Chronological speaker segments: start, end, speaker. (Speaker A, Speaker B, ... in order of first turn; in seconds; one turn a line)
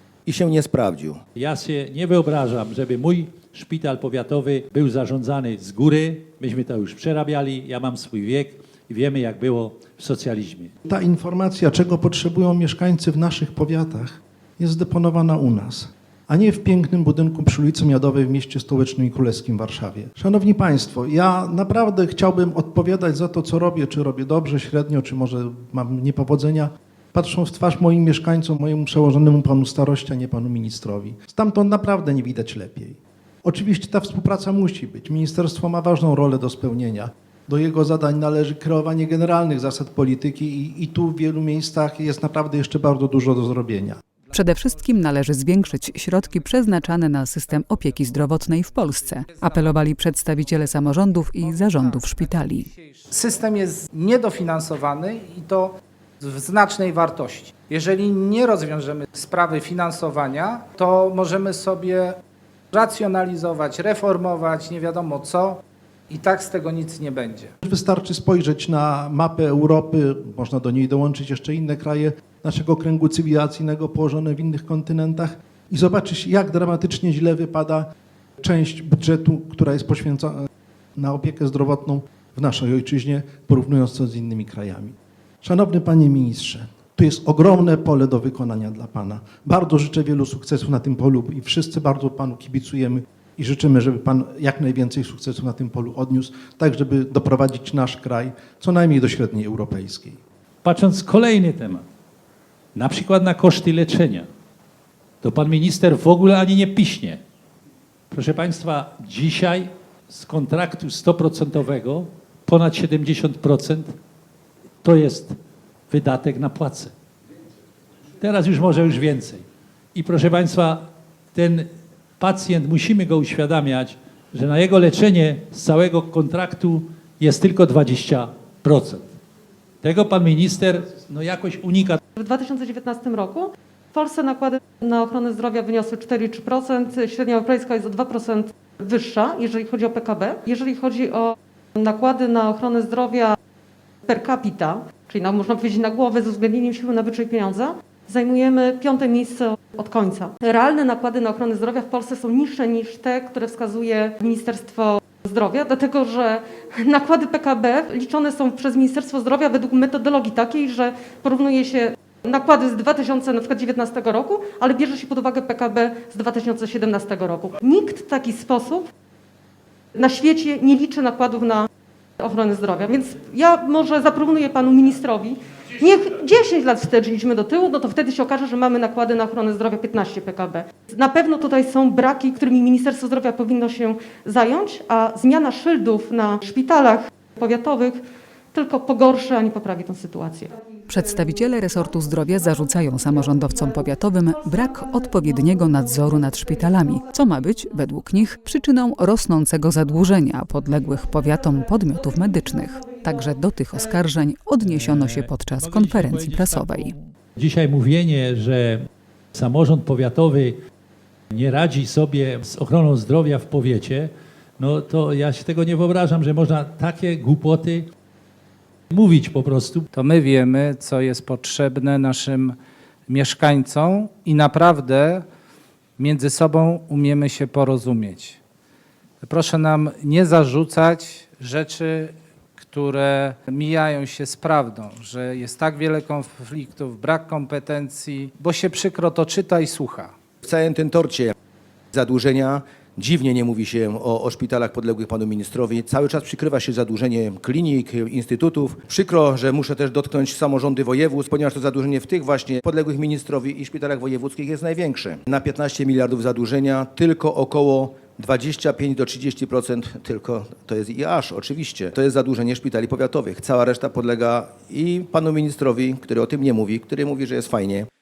Speaker A: 0.3-1.2
Speaker B: 1.4-10.7
Speaker C: 10.9-44.0
Speaker D: 44.3-52.7
Speaker E: 49.3-62.2
Speaker E: 62.7-67.5
Speaker C: 67.6-77.9
Speaker C: 78.4-100.2
Speaker B: 100.6-101.8
Speaker B: 102.7-104.3
Speaker B: 105.2-107.2
Speaker B: 108.1-113.9
Speaker B: 114.8-115.4
Speaker B: 115.9-116.9
Speaker B: 118.2-129.1
Speaker B: 129.8-132.0
Speaker F: 132.2-143.4
Speaker F: 144.1-168.9
Speaker F: 169.9-171.7
Speaker F: 172.2-188.0
Speaker F: 188.5-190.6
Speaker D: 190.9-206.9
Speaker F: 193.0-193.8
Speaker F: 194.4-197.8
Speaker F: 200.8-203.3
Speaker B: 204.6-210.6
Speaker B: 211.3-217.9
Speaker B: 218.9-219.9
Speaker E: 219.9-222.6
Speaker E: 223.1-225.2
Speaker E: 226.0-228.4
Speaker E: 229.2-240.1
Speaker A: 240.4-241.3
Speaker A: 241.9-267.9